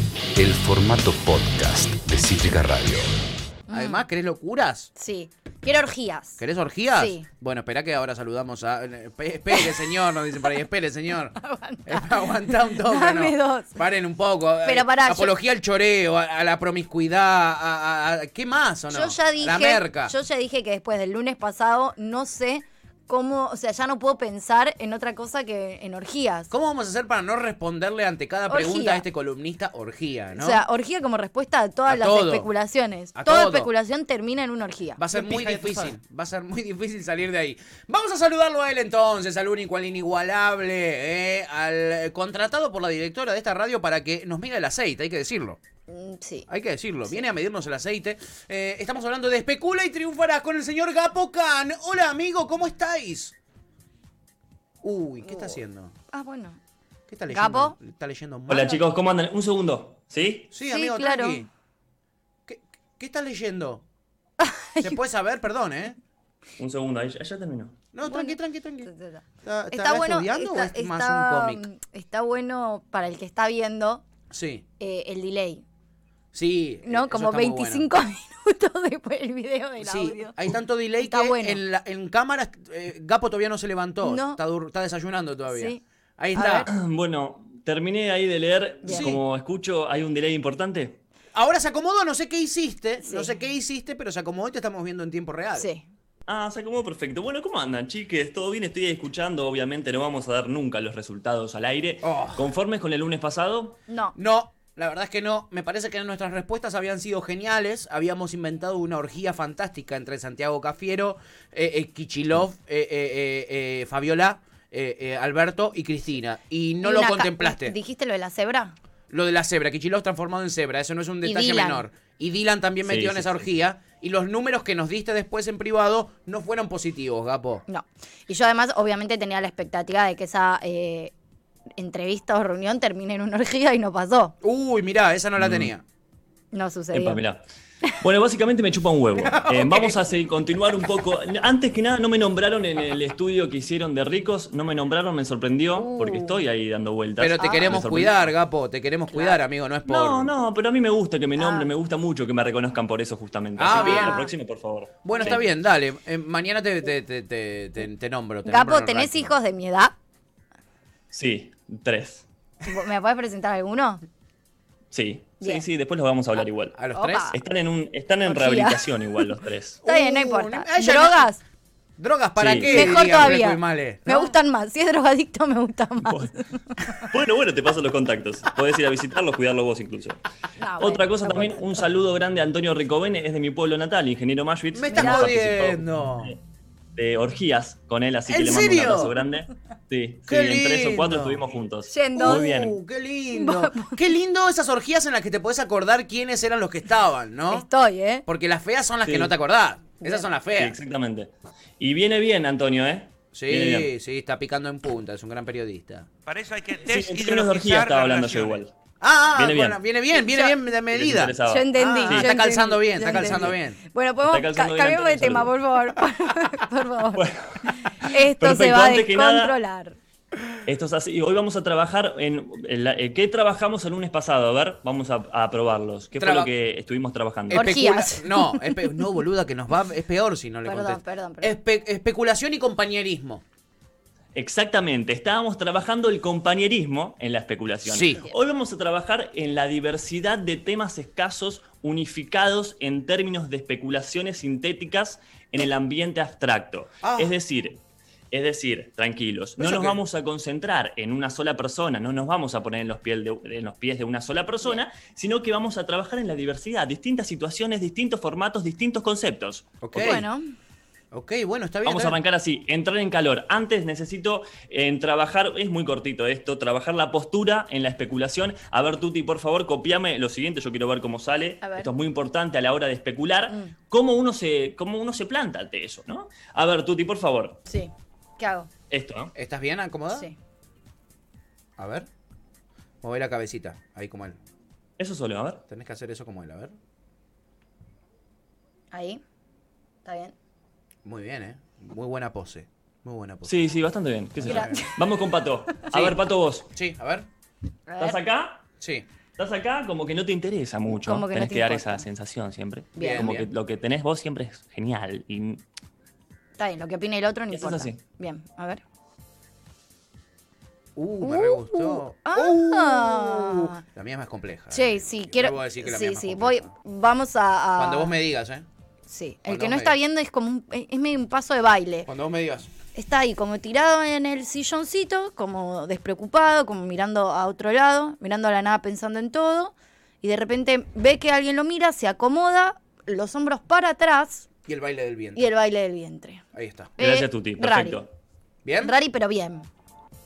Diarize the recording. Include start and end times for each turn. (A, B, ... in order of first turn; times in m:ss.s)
0:00.4-0:03.2 A
0:03.7-0:04.1 B
0:03.7-0:04.9 C
0:05.0-0:06.4 B
0:06.4-0:20.1 C
0:06.9-0:07.3 B
0:09.5-0:09.9 B
0:11.4-0:13.8 B
0:14.6-0:15.3 B
0:18.9-0:26.5 B
0:26.5-0:30.6 C
0:28.5-0:29.0 B
0:30.3-0:35.0 B
0:31.9-0:32.5 C
0:33.2-0:33.7 C
0:35.0-0:45.6 C
0:45.9-0:46.5 B
0:46.5-0:53.3 C
0:54.8-0:55.9 C
0:55.2-0:55.6 B
0:56.1-0:56.6 B
0:57.1-0:58.7 C
0:57.3-0:57.8 B
0:58.5-1:00.5 D
1:00.5-1:01.5 C
1:00.6-1:01.4 B
1:02.5-1:03.8 C
1:04.4-1:05.0 B
1:04.8-1:06.0 C
1:06.6-1:07.8 D
1:07.9-1:08.9 C
1:08.0-1:14.0 B
1:09.4-1:11.6 C
1:14.3-1:14.6 C
1:14.8-1:15.6 B
1:16.3-1:17.9 C
1:16.8-1:20.4 B
1:19.8-1:26.7 C
1:21.0-1:21.6 B
1:24.0-1:24.4 B
1:25.5-1:25.8 B
1:26.3-1:26.7 B
1:26.7-1:31.0 D
1:28.8-1:29.2 B
1:28.9-1:29.2 C
1:31.3-1:35.7 C
1:33.0-1:33.4 B
1:35.6-1:35.9 B
1:36.3-1:43.8 D
1:42.0-1:42.5 C
1:43.9-1:44.2 B
1:44.2-1:57.8 C
1:56.8-1:58.7 B
1:59.1-2:07.6 C
2:01.2-2:01.8 B
2:02.8-2:03.5 D
2:07.7-2:11.1 B
2:11.8-2:14.3 B
2:14.4-2:15.8 C
2:15.4-2:15.7 D
2:16.5-2:17.2 B
2:16.9-2:17.4 D
2:18.0-2:28.3 D
2:19.2-2:20.0 C
2:25.8-2:26.4 B
2:27.2-2:30.3 C
2:27.4-2:27.8 B
2:29.1-2:29.4 B
2:29.9-2:35.4 D
2:31.4-2:31.7 B
2:33.6-2:34.2 C
2:33.7-2:34.3 B
2:35.0-2:39.4 C
2:35.1-2:35.4 B
2:38.4-2:39.9 B
2:41.1-2:42.2 D
2:42.6-2:44.0 B
2:44.9-2:46.7 D
2:45.4-2:45.6 B
2:46.7-2:47.3 C
2:46.9-2:47.4 B
2:47.3-2:49.8 D
2:48.3-2:48.9 B
2:49.8-2:51.3 C
2:49.8-2:51.4 B
2:52.0-2:54.4 C
2:52.4-2:53.3 D
2:52.7-2:57.0 B
2:56.0-2:56.3 D
2:57.0-3:00.2 D
3:00.6-3:01.8 B
3:00.8-3:06.4 D
3:04.7-3:06.4 C
3:04.9-3:05.3 B
3:06.9-3:12.8 D
3:08.3-3:09.1 C
3:10.3-3:11.4 C
3:11.9-3:12.5 B
3:12.2-3:17.7 C
3:13.3-3:14.0 B
3:17.5-3:18.2 B
3:18.2-3:20.8 C
3:19.0-3:19.3 D
3:20.0-3:20.3 B
3:20.5-3:23.9 D
3:23.3-3:26.1 C
3:26.3-3:28.6 E
3:26.8-3:28.7 D
3:29.0-3:33.8 C
3:29.4-3:29.8 D
3:30.1-3:30.6 B
3:30.9-3:32.3 D
3:31.4-3:40.0 B
3:33.0-3:33.6 D
3:34.2-3:35.5 D
3:37.1-3:37.6 D
3:38.2-3:39.5 D
3:40.6-3:47.7 D
3:46.2-3:46.5 C
3:47.5-3:49.0 B
3:47.5-3:53.4 C
3:50.6-3:51.6 B
3:54.3-4:07.8 D
3:57.8-3:58.2 C
4:07.0-4:07.3 C
4:08.3-4:20.2 D
4:09.6-4:10.0 C
4:19.8-4:20.2 C
4:20.0-4:20.4 B
4:21.1-4:22.2 C
4:21.8-4:37.6 D
4:31.6-4:31.9 B
4:33.5-4:33.7 B
4:37.7-4:38.7 B
4:38.9-4:39.3 D
4:39.4-4:40.3 C
4:40.1-4:40.4 B
4:41.8-4:42.1 C
4:43.0-4:44.4 C
4:45.0-4:45.6 D
4:45.7-4:46.7 C
4:48.9-4:49.2 B
4:50.0-4:50.3 B
4:51.0-4:53.7 C
4:53.4-4:56.7 D
4:54.4-4:54.9 C
4:54.4-4:54.9 B
4:55.9-4:57.3 C
4:57.9-4:58.2 B
4:58.0-4:58.6 D
4:58.8-4:59.0 C
4:59.4-5:05.6 D
5:00.9-5:02.0 B
5:02.9-5:03.3 B
5:03.0-5:03.5 C
5:06.6-5:08.8 B
5:07.5-5:08.0 D
5:11.0-5:16.7 C
5:11.2-5:13.8 B
5:14.7-5:18.2 B
5:17.7-5:18.6 C
5:19.1-5:22.1 B
5:19.4-5:20.0 C
5:22.1-5:22.7 C
5:22.9-5:34.5 B
5:34.7-5:35.5 C
5:35.4-5:36.4 B
5:36.5-5:37.0 C
5:37.0-5:38.0 B
5:37.0-5:38.1 D
5:38.6-5:38.9 C
5:38.8-5:39.7 B